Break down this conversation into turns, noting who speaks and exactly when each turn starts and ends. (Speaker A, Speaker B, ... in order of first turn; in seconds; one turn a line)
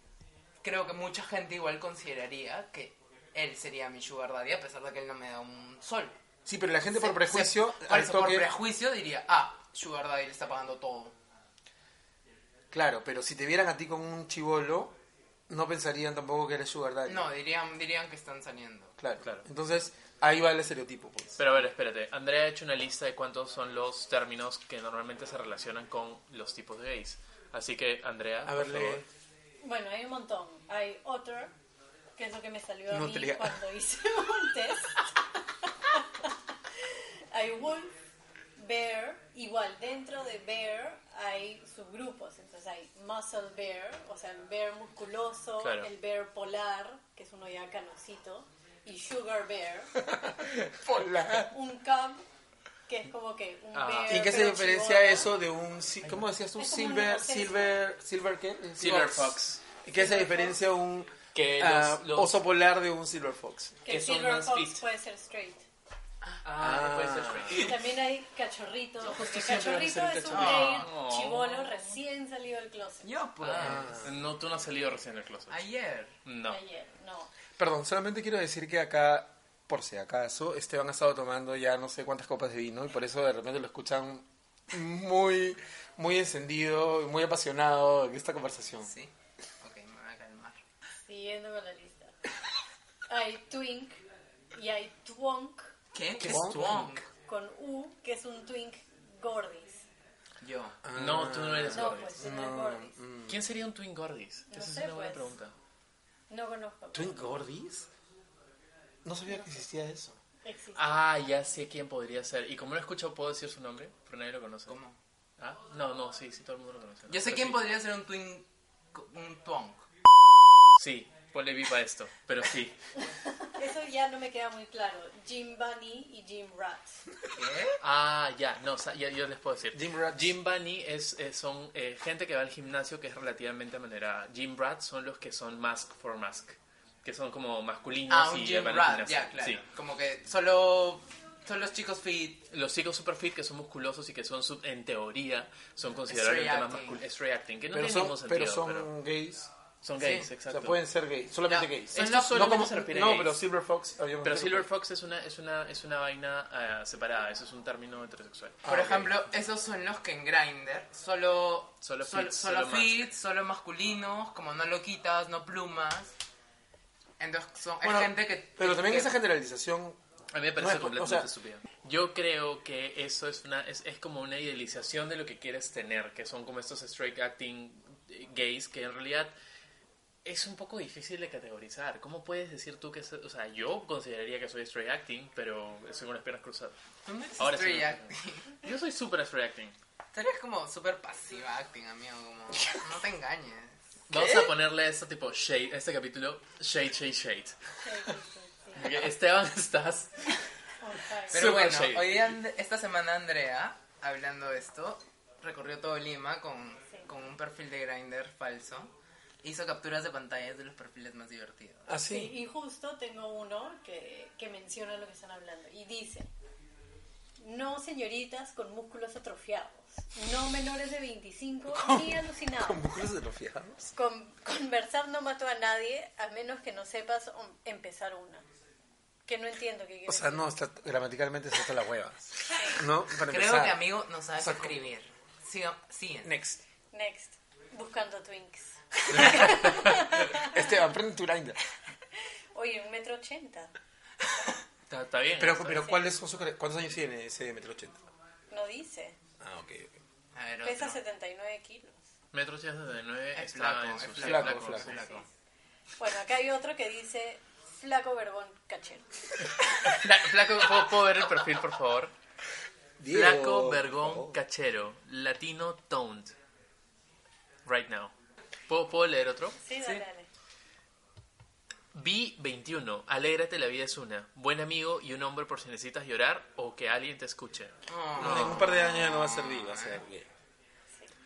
Speaker A: 0.6-6.2
Speaker B: 6.5-8.5
Speaker A: 6.9-11.2
Speaker B: 12.7-14.9
Speaker B: 15.5-17.3
Speaker A: 17.1-19.0
Speaker B: 19.0-21.4
Speaker C: 21.4-29.0
Speaker B: 28.4-29.1
Speaker D: 29.6-31.5
Speaker D: 32.2-35.0
Speaker B: 32.9-33.6
Speaker D: 35.9-36.3
Speaker D: 37.3-37.9
Speaker D: 38.6-49.9
Speaker C: 45.6-45.9
Speaker B: 50.0-51.5
Speaker D: 51.5-52.2
Speaker D: 52.9-55.3
Speaker C: 53.7-54.3
Speaker B: 54.0-63.8
Speaker D: 56.6-57.8
Speaker C: 58.8-59.6
Speaker D: 59.9-60.6
Speaker C: 61.3-62.4
Speaker D: 63.9-65.7
Speaker C: 63.9-64.8
Speaker C: 66.4-67.9
Speaker B: 66.6-67.7
Speaker D: 67.5-73.1
Speaker C: 69.0-71.6
Speaker A: 70.3-70.9
Speaker A: 73.0-74.1
Speaker C: 73.4-75.7
Speaker B: 73.6-74.1
Speaker A: 75.5-76.2
Speaker C: 76.2-76.6
Speaker D: 76.5-77.3
Speaker B: 77.6-88.9
Speaker A: 88.8-90.6
Speaker D: 91.1-92.1
Speaker D: 93.1-94.0
Speaker D: 94.5-95.7
Speaker A: 95.9-97.1
Speaker B: 96.2-96.9
Speaker C: 96.2-97.0
Speaker D: 97.2-99.9
Speaker A: 100.4-100.8
Speaker B: 100.8-103.4
Speaker C: 100.9-102.3
Speaker D: 101.7-103.0
Speaker C: 103.3-105.5
Speaker D: 104.5-105.3
Speaker D: 106.3-107.4
Speaker B: 106.9-107.9
Speaker B: 109.0-110.2
Speaker D: 110.4-110.8
Speaker C: 110.8-114.8
Speaker A: 114.7-115.0
Speaker C: 115.4-117.6
Speaker A: 117.1-119.8
Speaker C: 120.8-122.8
Speaker D: 123.0-127.0
Speaker A: 127.3-127.8
Speaker C: 127.8-139.6
Speaker B: 129.7-130.3
Speaker A: 138.1-142.5
Speaker C: 142.5-148.9
Speaker A: 146.1-147.0
Speaker B: 147.7-149.5
Speaker C: 149.8-150.8
Speaker A: 150.0-150.3
Speaker B: 150.0-154.7
Speaker A: 151.5-152.8
Speaker C: 151.9-153.4
Speaker C: 154.2-159.1
Speaker B: 158.7-159.1
Speaker A: 158.7-166.1
Speaker C: 161.8-163.0
Speaker A: 167.2-169.1
Speaker B: 167.8-170.0
Speaker C: 170.3-179.3
Speaker B: 170.6-171.3
Speaker C: 180.2-186.8
Speaker A: 187.1-188.5
Speaker C: 187.4-189.8
Speaker A: 190.1-194.5
Speaker C: 194.1-197.6
Speaker D: 197.8-198.9
Speaker C: 198.8-200.4
Speaker D: 200.8-201.5
Speaker C: 201.3-202.4
Speaker A: 201.3-211.9
Speaker B: 211.9-212.4
Speaker D: 212.1-216.3
Speaker D: 217.4-222.9
Speaker B: 221.7-223.8
Speaker D: 223.8-228.4
Speaker D: 229.3-230.5
Speaker B: 230.1-233.8
Speaker D: 232.5-232.8
Speaker A: 233.2-236.3
Speaker B: 234.4-234.8
Speaker B: 236.2-236.6
Speaker D: 236.9-240.5
Speaker B: 239.1-241.6
Speaker D: 242.5-243.7
Speaker C: 244.9-245.9
Speaker B: 245.4-248.0
Speaker D: 248.5-249.2
Speaker B: 249.4-250.0
Speaker A: 250.3-251.0
Speaker D: 250.6-252.0
Speaker C: 252.3-255.2
Speaker A: 253.3-255.3
Speaker B: 254.2-255.0
Speaker D: 256.0-259.1
Speaker C: 259.9-262.1
Speaker B: 263.0-264.4
Speaker C: 263.1-266.3
Speaker C: 267.6-268.1
Speaker C: 268.7-269.6
Speaker D: 269.6-270.3
Speaker C: 271.9-278.6
Speaker A: 277.9-280.0
Speaker B: 278.2-280.3